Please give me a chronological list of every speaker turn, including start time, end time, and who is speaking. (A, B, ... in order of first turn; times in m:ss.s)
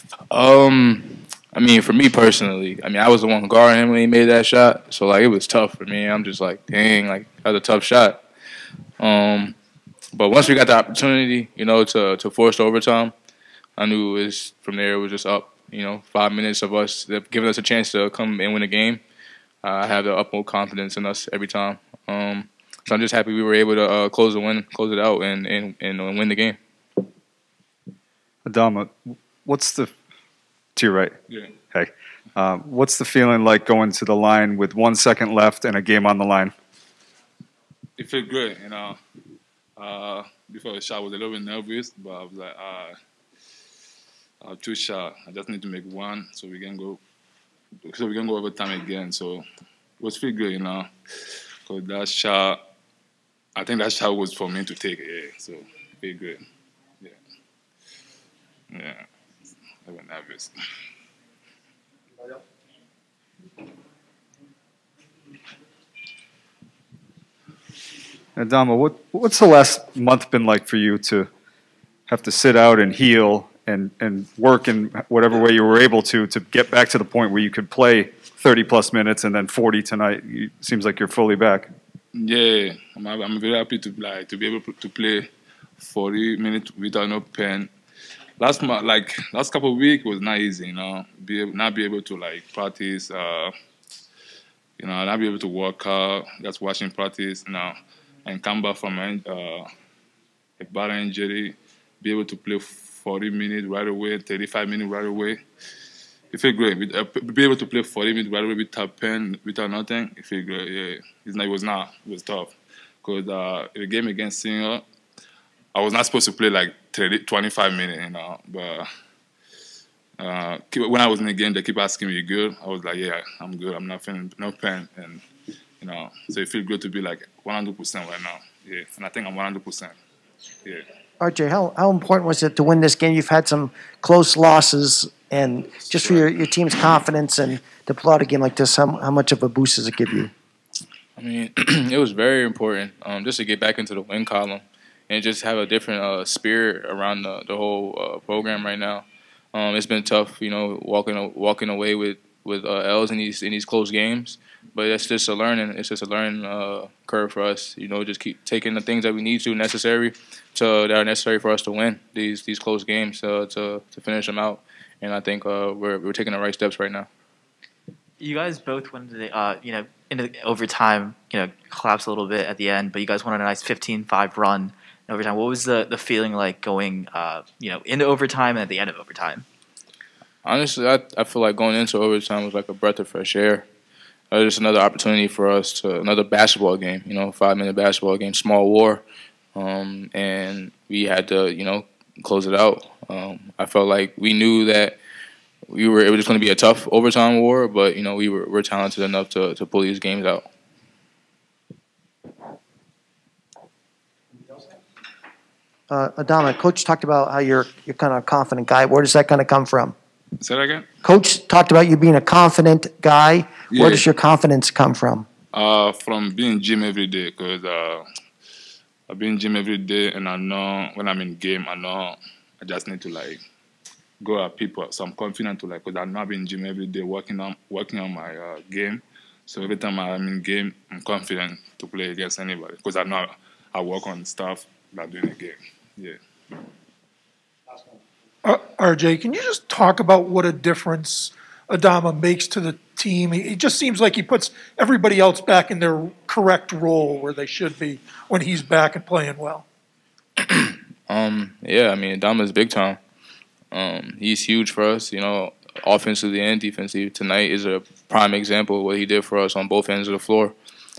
0:00.3-0:08.2 A
0:09.0-0:09.6 A
0:10.1-0:13.1 A
0:13.8-0:19.0 A
0:19.6-0:26.6 A
0:28.4-0:29.9 B
0:30.8-0:31.1 B
0:31.7-0:36.5 B
0:38.0-0:39.0 C
0:39.8-0:42.9 C
0:44.4-0:47.0 C
0:47.9-0:49.4 C
0:50.0-0:50.9 C
0:51.6-0:52.6 C
0:53.6-0:56.4 C
0:58.7-0:59.0 C
0:59.8-1:00.5 C
1:08.4-1:11.3 B
1:12.1-1:21.7 B
1:22.1-1:25.3 C
1:25.8-1:27.7 C
1:28.4-1:33.5 C
1:34.8-1:39.6 C
1:40.6-1:45.4 C
1:46.3-1:54.8 C
1:55.7-1:58.8 C
2:00.2-2:05.2 C
2:05.8-2:09.9 C
2:11.2-2:20.3 D
2:16.0-2:16.2 C
2:21.2-2:47.1 A
2:48.2-2:59.4 E
3:00.4-3:03.6 A
3:04.3-3:09.0 A
3:09.5-3:15.0 A
3:15.7-3:20.5 A
3:25.9-3:29.9 D
3:30.4-3:30.9 C
3:31.0-3:35.2 D
3:33.7-3:34.1 C
3:35.5-3:38.0 C
3:39.1-3:43.4 C
3:44.2-3:56.2 C
3:58.4-4:09.6 F
4:10.4-4:13.0 A
4:13.7-4:20.5 A